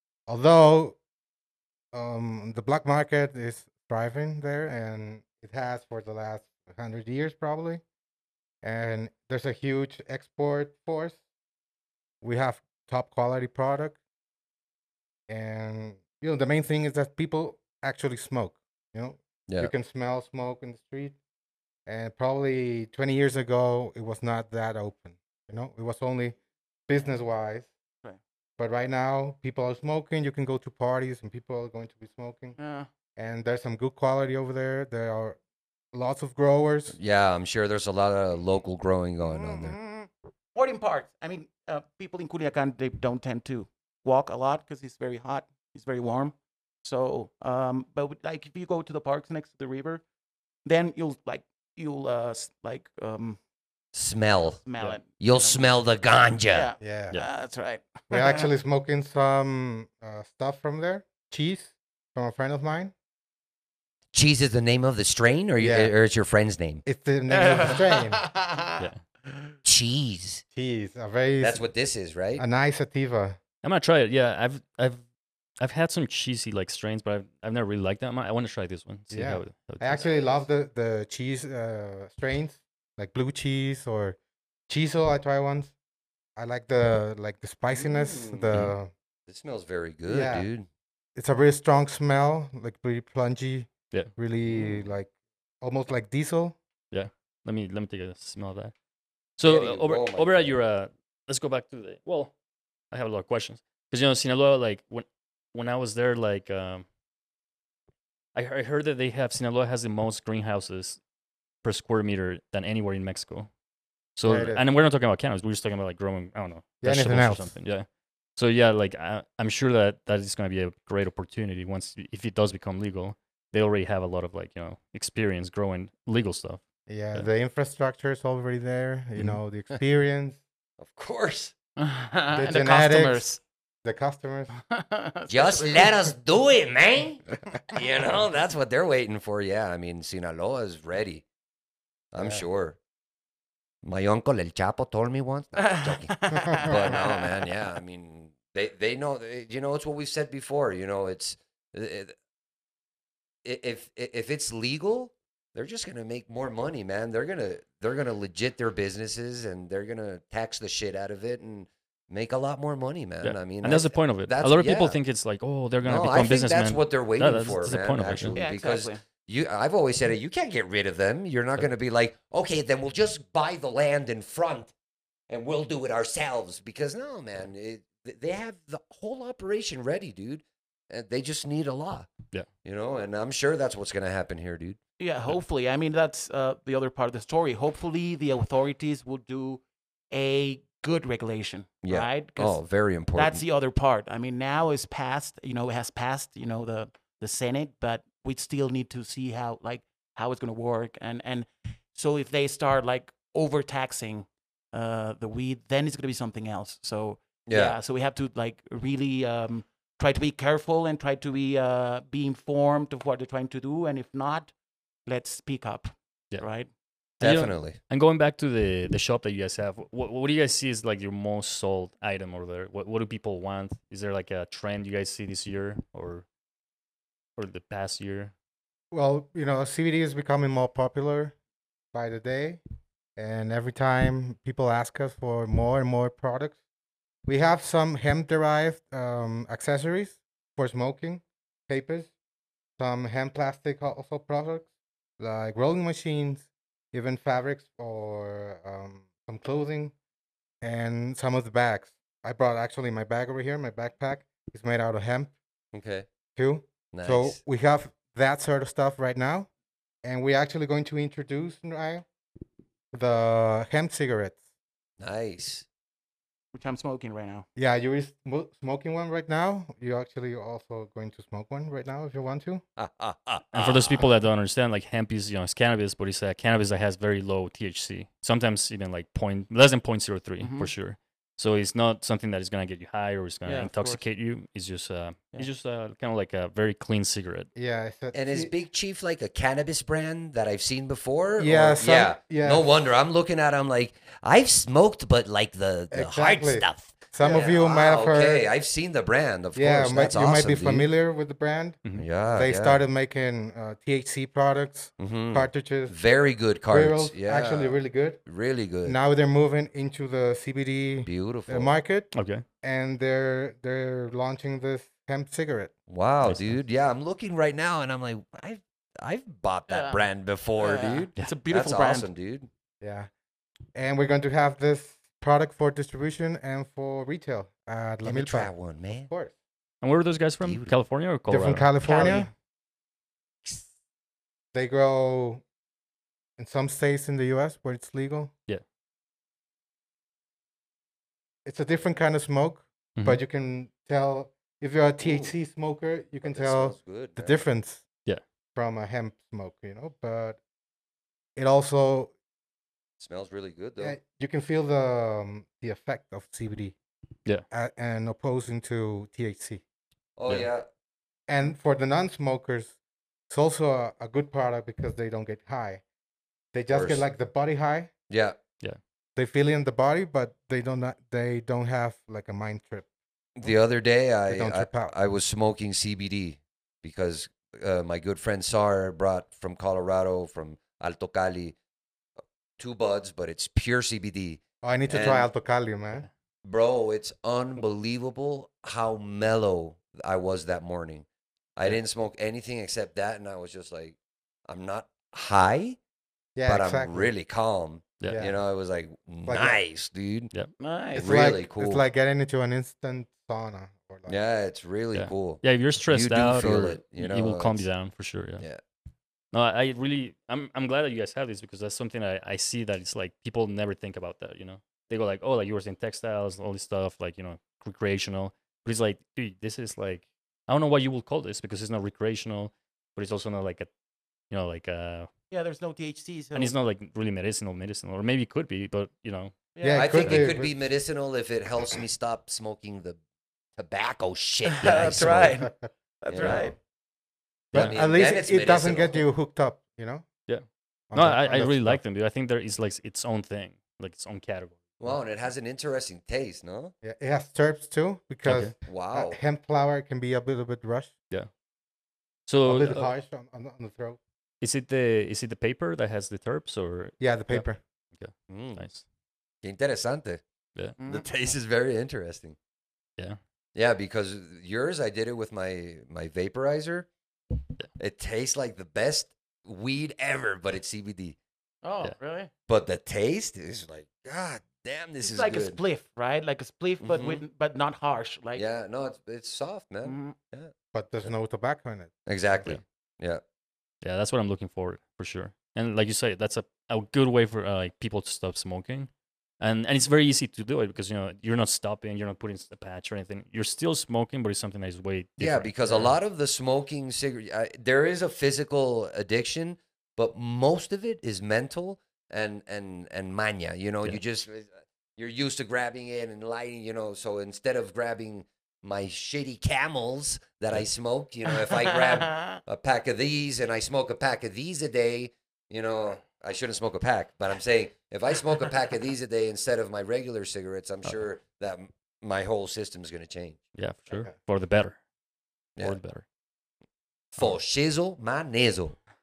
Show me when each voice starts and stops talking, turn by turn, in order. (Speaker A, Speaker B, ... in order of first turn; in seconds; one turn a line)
Speaker A: 0.3-1.0
Speaker A: 1.9-7.8
Speaker A: 8.6-11.2
Speaker A: 12.2-14.0
Speaker A: 15.3-21.2
Speaker A: 21.9-26.4
Speaker A: 26.9-27.7
Speaker A: 28.6-32.6
Speaker B: 32.6-32.9
Speaker A: 33.1-35.4
Speaker A: 35.9-37.0
Speaker C: 36.9-39.8
Speaker B: 39.2-50.0
Speaker B: 50.6-53.4
Speaker C: 53.9-54.6
Speaker B: 54.6-55.7
Speaker C: 55.2-56.7
Speaker B: 56.5-58.5
Speaker A: 56.8-57.1
Speaker A: 58.1-62.9
Speaker C: 64.1-66.8
Speaker A: 65.6-65.9
Speaker A: 66.9-68.2
Speaker B: 67.3-69.5
Speaker C: 69.6-70.4
Speaker A: 70.5-71.6
Speaker C: 71.4-72.4
Speaker A: 72.4-73.4
Speaker D: 73.6-75.0
Speaker D: 75.6-80.0
Speaker A: 79.1-84.2
Speaker A: 84.7-85.7
Speaker A: 86.4-88.9
Speaker C: 87.7-88.6
Speaker C: 89.3-90.7
Speaker A: 90.1-90.5
Speaker A: 91.1-96.6
Speaker D: 96.9-98.7
Speaker D: 99.4-102.3
Speaker C: 99.4-100.5
Speaker D: 102.9-106.9
Speaker D: 108.3-111.0
Speaker D: 111.6-113.5
Speaker D: 114.2-126.6
Speaker A: 114.2-114.6
Speaker A: 116.8-117.6
Speaker A: 126.9-130.4
Speaker C: 130.8-131.5
Speaker B: 131.8-133.4
Speaker A: 132.3-133.2
Speaker A: 133.8-134.5
Speaker B: 134.7-135.9
Speaker C: 135.3-141.2
Speaker C: 142.1-142.8
Speaker A: 142.2-142.4
Speaker C: 143.8-152.1
Speaker B: 145.6-147.5
Speaker C: 153.4-165.0
Speaker D: 163.2-168.4
Speaker C: 165.8-174.7
Speaker B: 168.3-169.0
Speaker C: 175.3-182.1
Speaker C: 182.6-184.8
Speaker B: 185.0-192.6
Speaker C: 191.8-193.4
Speaker B: 193.2-214.5
Speaker C: 207.5-207.8
Speaker B: 215.1-216.7
Speaker C: 217.2-217.8
Speaker D: 217.2-226.2
Speaker D: 227.4-228.3
Speaker A: 228.9-231.3
Speaker A: 231.9-232.6
Speaker A: 233.2-236.6
Speaker A: 237.2-242.1
Speaker A: 242.8-244.7
Speaker A: 245.2-249.9
Speaker A: 250.6-255.3
Speaker C: 255.7-256.1
Speaker A: 256.4-259.5
Speaker C: 256.9-257.4
Speaker A: 260.0-262.1
Speaker A: 262.9-264.4
Speaker C: 265.0-265.6
Speaker B: 266.5-267.4
Speaker A: 267.6-272.6
Speaker C: 272.8-274.1
Speaker D: 273.5-287.5
Speaker B: 280.4-280.7
Speaker B: 283.4-284.0
Speaker A: 287.6-288.5
Speaker C: 288.1-300.9
Speaker A: 291.4-292.7
Speaker A: 295.9-298.5
Speaker A: 299.6-301.8
Speaker C: 301.9-302.8
Speaker A: 302.3-306.0
Speaker C: 305.0-309.0
Speaker A: 306.7-308.2
Speaker A: 308.9-315.7
Speaker C: 311.1-311.7
Speaker D: 312.1-312.4
Speaker C: 315.9-322.5
Speaker D: 316.2-316.6
Speaker B: 319.7-320.0
Speaker B: 320.6-322.1
Speaker A: 322.8-323.1
Speaker A: 323.7-328.5
Speaker C: 328.0-329.1
Speaker A: 329.1-329.3
Speaker D: 329.8-331.7
Speaker C: 330.4-330.7
Speaker A: 331.3-332.3
Speaker B: 331.8-332.3
Speaker A: 334.5-335.4
Speaker A: 336.4-338.3
Speaker A: 341.4-347.8
Speaker C: 345.0-345.3
Speaker C: 346.2-347.4
Speaker A: 348.6-350.4
Speaker A: 351.4-352.1
Speaker C: 353.0-354.0
Speaker A: 353.8-356.8
Speaker A: 357.5-359.6
Speaker C: 360.2-360.6
Speaker A: 361.3-362.8
Speaker A: 363.3-365.8
Speaker A: 366.5-367.9
Speaker C: 366.7-367.0
Speaker C: 368.1-368.4
Speaker A: 369.1-372.9
Speaker C: 373.4-381.6
Speaker A: 374.3-374.9
Speaker C: 382.6-385.3
Speaker A: 384.6-386.1
Speaker C: 386.4-395.8
Speaker A: 396.4-397.1
Speaker C: 396.4-400.3
Speaker A: 398.1-398.4
Speaker A: 399.2-399.6
Speaker B: 400.6-401.1
Speaker C: 400.9-401.8
Speaker A: 400.9-404.2
Speaker C: 404.1-407.7
Speaker D: 404.9-408.4
Speaker D: 409.3-423.7
Speaker D: 424.3-425.1
Speaker B: 425.3-426.5
Speaker D: 426.4-429.4
Speaker B: 429.6-430.3
Speaker A: 429.6-430.7
Speaker C: 429.7-433.0
Speaker C: 433.6-435.4
Speaker B: 434.5-435.5
Speaker D: 434.6-435.1
Speaker A: 435.4-435.7
Speaker B: 436.0-436.6
Speaker C: 436.1-436.5
Speaker C: 437.5-439.0
Speaker A: 437.5-440.1
Speaker D: 440.3-445.0
Speaker A: 440.9-441.8
Speaker C: 444.8-446.7
Speaker A: 446.8-450.9
Speaker D: 448.2-448.5
Speaker C: 448.7-449.2
Speaker D: 452.3-452.9
Speaker A: 452.4-454.0
Speaker D: 454.4-457.4
Speaker A: 457.0-457.6
Speaker D: 458.0-458.9
Speaker C: 458.3-458.6
Speaker C: 459.4-460.2
Speaker B: 460.8-461.1
Speaker C: 460.9-462.4
Speaker C: 463.6-466.9
Speaker C: 467.8-471.2
Speaker B: 471.6-472.3
Speaker C: 472.5-475.6
Speaker B: 475.0-478.4
Speaker C: 476.8-477.2
Speaker C: 478.4-480.5
Speaker B: 479.8-480.1
Speaker A: 480.7-481.9
Speaker C: 482.1-483.2
Speaker D: 483.8-488.9
Speaker D: 489.4-495.9
Speaker C: 495.2-523.4
Speaker B: 511.4-512.4
Speaker D: 523.5-524.8
Speaker D: 525.6-526.0
Speaker C: 527.1-528.8